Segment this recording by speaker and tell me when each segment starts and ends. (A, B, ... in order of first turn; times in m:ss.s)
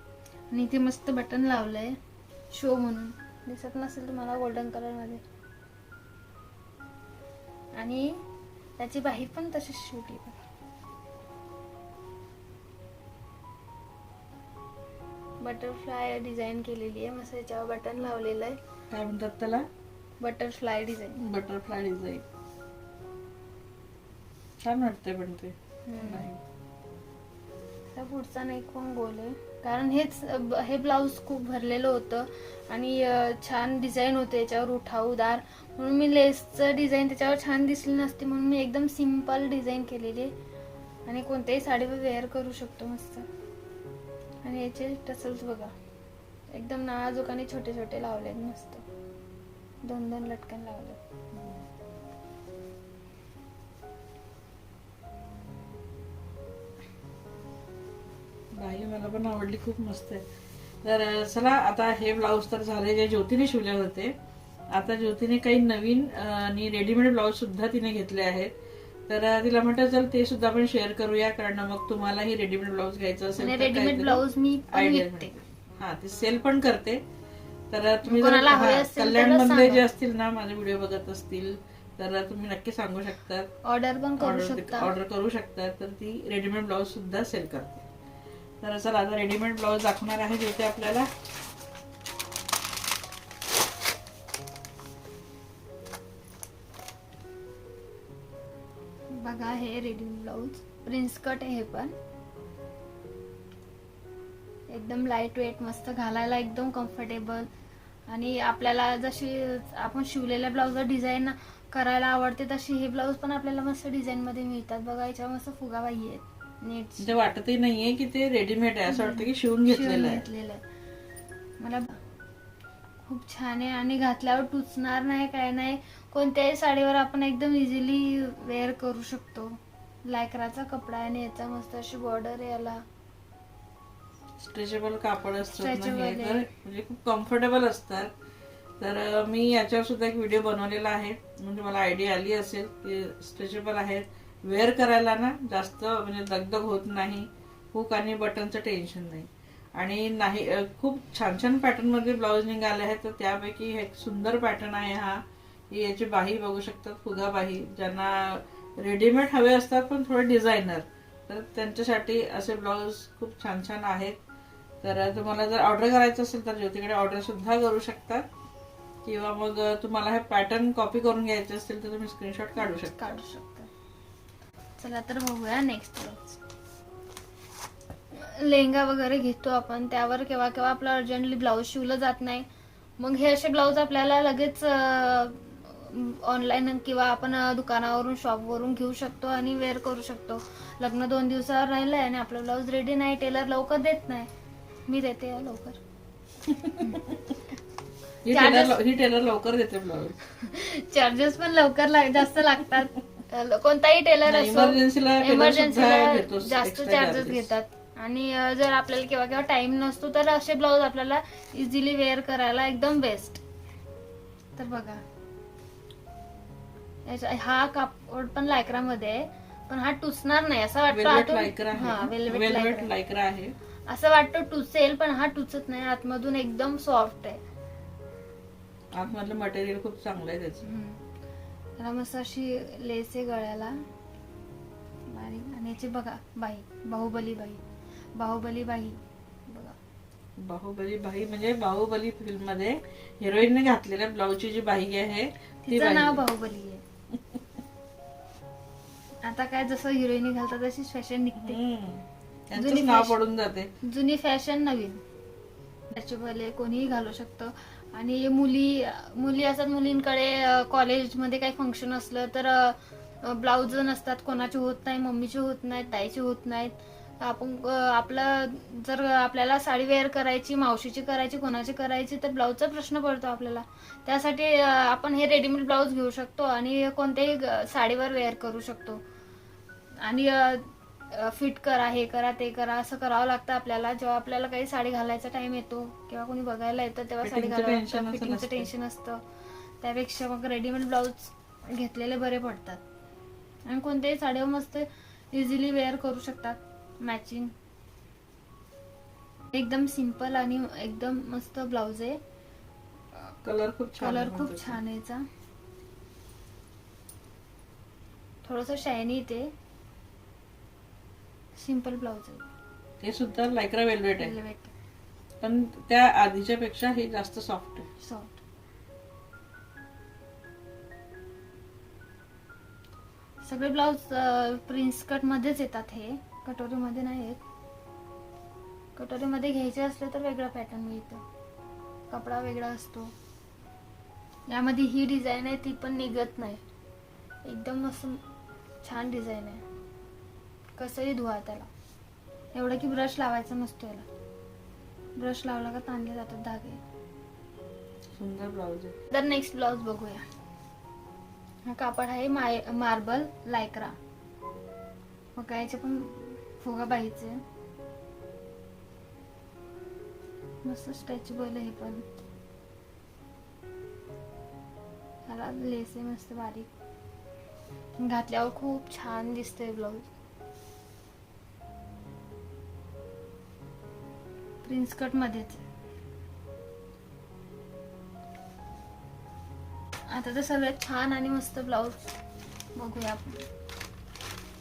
0:00.5-0:02.0 A
0:02.5-0:05.2 A
0:07.8-0:08.1 A
0:08.8-0:10.4 A
0:15.4-0:18.6 A
0:18.9-0:19.7 B
0:20.2-0:21.2 A
0:21.2-0:22.3 B
0:24.6-0:26.4 B
0:25.9-0:26.3 A
0:28.0-0:40.3 A
0:41.1-0:43.3 A
0:44.4-0:45.8 A
0:46.5-0:48.8 A
0:49.8-0:51.0 A
0:58.5-1:00.2 B
1:00.8-1:04.1 B
1:04.7-1:08.5 B
1:09.1-1:17.0 B
1:13.4-1:15.3 A
1:17.7-1:23.5 B
1:18.0-1:19.8 A
1:23.6-1:24.9 A
1:24.2-1:27.9 B
1:28.6-1:31.1 B
1:39.1-1:41.9 A
1:44.7-1:47.5 A
1:48.1-1:57.1 A
1:57.0-2:00.2 B
1:58.9-2:00.6 A
2:01.6-2:02.0 A
2:03.1-2:12.8 A
2:14.4-2:18.1 B
2:15.5-2:16.5 A
2:18.8-2:44.2 B
2:44.8-2:48.2 B
2:49.0-2:53.0 B
2:52.8-2:53.7 A
2:54.8-2:56.4 A
2:58.1-3:02.5 A
3:03.0-3:14.3 A
3:14.9-3:15.8 A
3:16.5-3:17.2 B
3:18.2-3:20.2 B
3:18.3-3:18.8 A
3:20.4-3:33.4 A
3:24.3-3:27.5 B
3:34.6-3:35.0 A
3:37.1-3:42.9 A
3:40.9-3:43.5 B
3:43.9-3:47.4 A
3:48.9-3:50.7 B
3:50.6-3:51.0 A
3:51.8-3:53.8 A
3:55.1-3:57.6 A
3:58.2-3:59.8 A
4:00.4-4:06.2 B
4:05.7-4:06.8 A
4:09.2-4:11.6 A
4:11.4-4:13.7 B
4:12.6-4:13.2 A
4:13.8-4:15.0 A
4:15.9-4:39.0 A
4:40.0-4:49.2 A
4:47.2-4:48.7 B
4:49.8-4:52.8 A
4:53.7-4:57.5 A
4:59.5-5:02.2 A
5:03.4-5:04.8 B
5:04.0-5:05.2 A
5:08.4-5:09.5 A
5:11.6-5:12.5 A
5:13.0-5:14.4 B
5:14.2-5:14.7 A
5:15.4-5:17.9 B
5:18.0-5:18.4 A
5:23.4-5:27.4 A
5:29.0-5:31.2 A
5:32.1-5:33.1 A
5:34.5-5:36.6 A
5:37.4-5:38.2 A
5:38.8-5:39.6 A
5:40.8-5:41.7 A
5:42.5-5:44.1 A
5:45.2-5:46.8 A
5:48.2-5:49.0 B
5:49.1-5:50.3 A
5:51.7-5:54.0 A
5:55.4-5:57.4 A
6:00.6-6:02.1 A
6:05.3-6:06.7 A
6:08.0-6:10.1 A
6:14.6-6:15.6 A
6:20.1-6:22.1 A
6:22.8-6:23.5 A